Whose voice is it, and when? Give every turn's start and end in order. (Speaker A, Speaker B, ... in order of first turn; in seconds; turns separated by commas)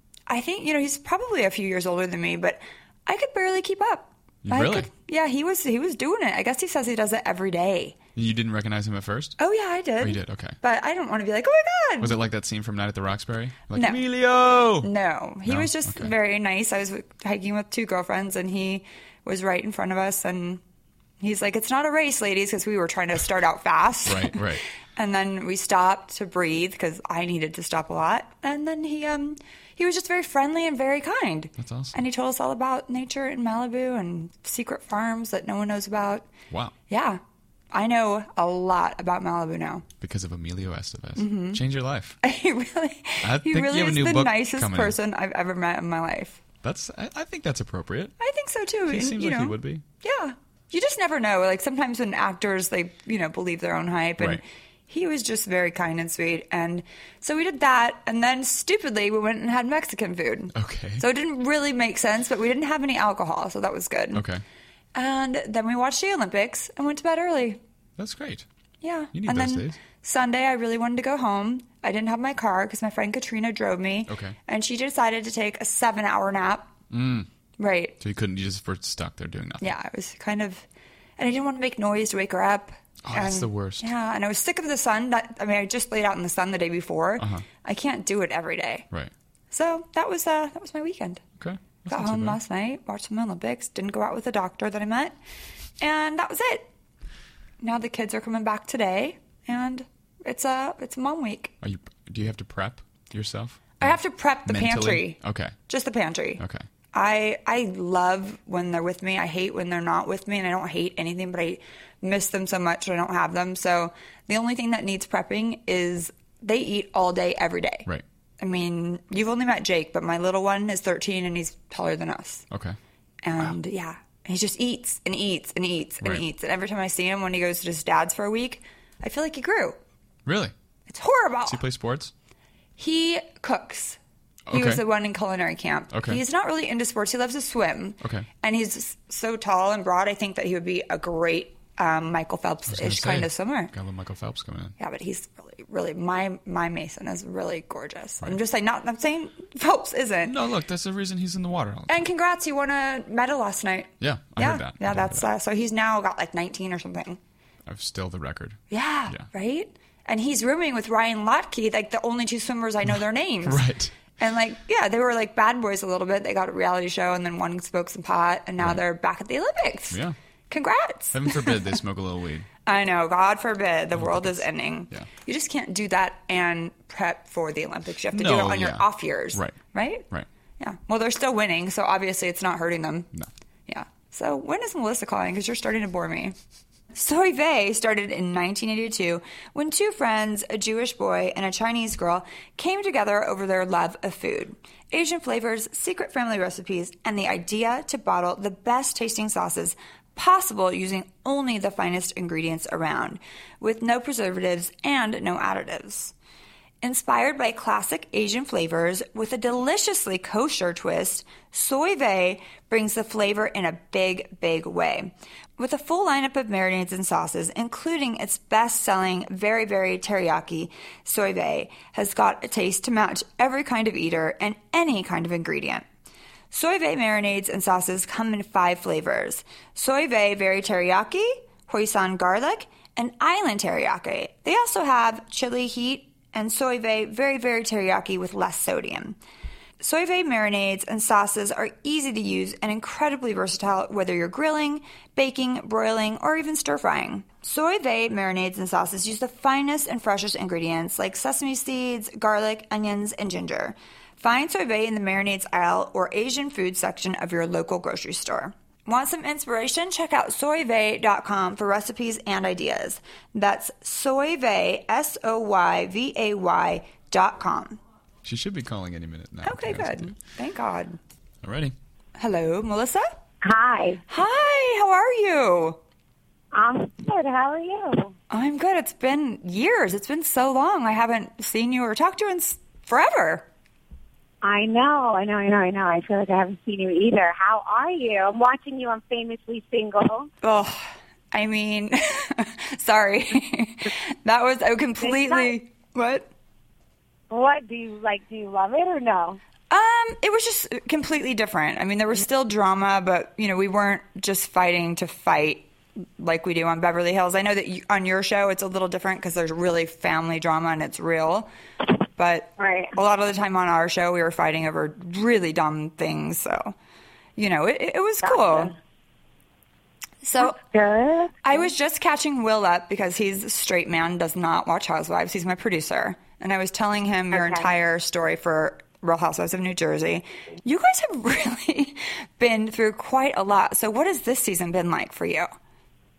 Speaker A: 0.3-8.0, Speaker B: 4.4-4.9, Speaker B: 8.1-9.4, Speaker A: 9.4-12.2, Speaker B: 10.0-10.6, Speaker B: 12.0-14.9, Speaker A: 13.8-14.0, Speaker A: 14.8-20.6, Speaker B: 15.4-16.1, Speaker A: 21.2-24.4, Speaker B: 24.1-24.6, Speaker A: 24.9-36.3, Speaker B: 31.6-32.0, Speaker A: 36.9-37.2, Speaker A: 37.7-39.9, Speaker B: 40.0-42.1, Speaker A: 41.2-41.6, Speaker A: 42.2-46.4, Speaker B: 43.2-45.0, Speaker B: 46.6-48.1, Speaker A: 48.2-64.2, Speaker B: 48.9-49.8, Speaker B: 60.5-61.0, Speaker B: 64.1-64.4, Speaker A: 64.9-67.6, Speaker B: 68.0-68.5, Speaker A: 68.8-76.7, Speaker B: 69.1-69.8, Speaker B: 74.1-74.4, Speaker B: 76.9-77.3, Speaker A: 77.6-78.0, Speaker B: 78.0-79.8, Speaker A: 79.6-80.6, Speaker A: 81.2-88.9, Speaker B: 83.0-83.9, Speaker B: 87.2-87.4, Speaker A: 89.5-91.2, Speaker B: 91.4-92.4, Speaker A: 91.9-95.1, Speaker A: 95.8-96.7, Speaker A: 97.6-101.5, Speaker B: 101.6-105.5, Speaker A: 103.8-106.4, Speaker B: 106.4-106.6, Speaker A: 106.9-117.9, Speaker A: 118.4-122.5, Speaker B: 122.5-122.8, Speaker A: 123.2-129.8, Speaker B: 130.2-130.5, Speaker A: 130.9-131.6, Speaker B: 131.5-132.1, Speaker A: 132.8-134.0, Speaker B: 134.5-134.8, Speaker A: 134.5-143.7, Speaker B: 135.9-136.2, Speaker B: 138.0-138.3, Speaker B: 142.7-144.7, Speaker A: 144.8-150.3, Speaker B: 150.2-152.1, Speaker A: 151.9-157.2, Speaker B: 154.0-155.3, Speaker B: 157.7-159.2, Speaker A: 158.7-163.7, Speaker B: 163.4-163.9, Speaker A: 164.2-171.6, Speaker B: 169.9-170.2, Speaker B: 171.1-172.5, Speaker A: 172.7-180.1, Speaker B: 173.9-175.1, Speaker B: 178.1-179.6, Speaker A: 180.6-183.1, Speaker A: 183.7-186.3, Speaker A: 186.9-206.1, Speaker A: 206.8-225.8, Speaker A: 226.5-239.2, Speaker A: 239.8-267.8, Speaker B: 268.2-270.1, Speaker A: 269.4-271.0, Speaker B: 271.4-271.7, Speaker A: 272.2-273.1, Speaker C: 273.4-274.0, Speaker A: 274.1-275.8, Speaker C: 276.5-278.1, Speaker A: 278.3-283.4, Speaker C: 284.4-290.3, Speaker A: 290.4-296.3, Speaker C: 295.0-295.5, Speaker C: 297.3-299.4, Speaker A: 299.7-311.5, Speaker A: 312.1-316.7, Speaker C: 312.6-312.9, Speaker A: 317.4-318.7, Speaker C: 318.2-318.7, Speaker A: 320.2-320.6, Speaker C: 320.4-321.6, Speaker A: 321.4-335.5, Speaker C: 327.3-327.7